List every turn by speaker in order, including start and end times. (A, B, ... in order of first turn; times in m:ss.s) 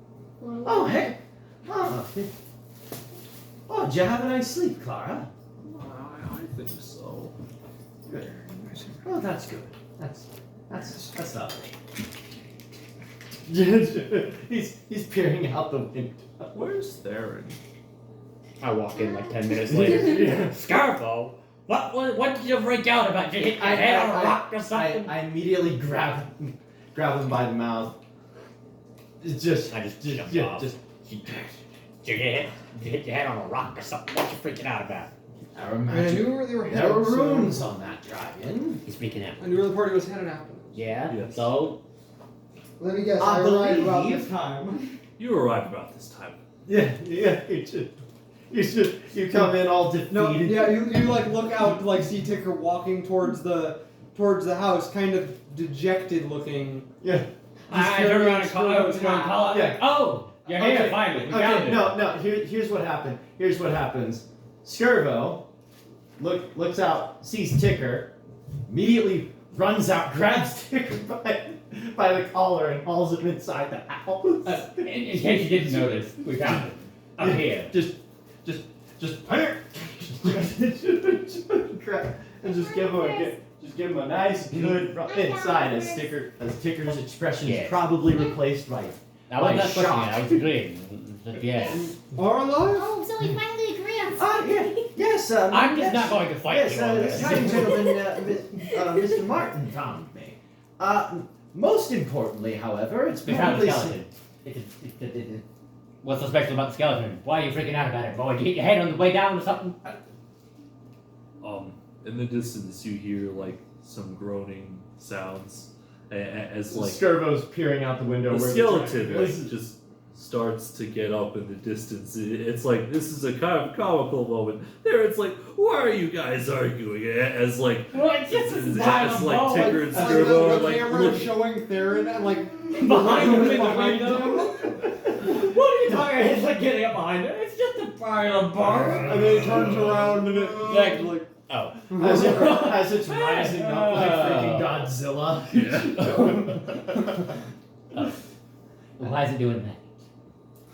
0:00.4-0:01.1 A
0:00.6-0:02.3 B
0:03.7-0:05.3 B
0:05.6-0:07.4 C
0:08.3-0:08.6 C
0:08.6-0:09.0 D
0:09.0-0:11.7 B
0:13.5-0:16.5 B
0:16.5-0:17.6 C
0:18.6-0:25.2 E
0:19.7-0:20.6 B
0:23.6-0:28.0 B
0:29.2-0:30.8 B
0:29.6-0:35.1 E
0:35.5-0:38.8 B
0:35.9-0:37.7 D
0:38.8-0:39.5 E
0:39.4-0:40.8 D
0:40.7-0:41.8 E
0:41.1-0:41.5 C
0:42.8-0:44.8 D
0:43.2-0:44.3 B
0:45.2-0:46.4 C
0:46.6-0:51.0 B
0:50.1-0:56.9 D
0:57.0-0:57.3 B
0:57.7-1:02.0 E
0:57.7-0:59.5 D
0:59.5-0:59.9 B
1:00.5-1:05.4 B
1:06.2-1:08.1 B
1:08.7-1:16.7 B
1:14.4-1:17.7 E
1:17.2-1:30.5 B
1:22.5-1:23.4 A
1:24.9-1:26.1 A
1:27.4-1:27.8 E
1:29.3-1:31.9 E
1:31.8-1:33.0 D
1:32.7-1:34.8 A
1:34.2-1:44.0 B
1:35.5-1:37.8 E
1:37.1-1:37.8 D
1:43.2-1:45.4 E
1:46.0-1:50.0 E
1:51.4-1:57.0 C
1:56.7-1:59.5 B
1:58.3-2:11.5 C
2:07.9-2:10.8 E
2:09.4-2:14.8 D
2:12.7-2:19.6 E
2:13.0-2:13.8 C
2:18.7-2:21.3 D
2:19.4-2:20.9 B
2:20.6-2:24.9 E
2:21.9-2:22.4 D
2:21.9-2:26.8 B
2:25.5-2:26.6 C
2:29.0-2:29.9 E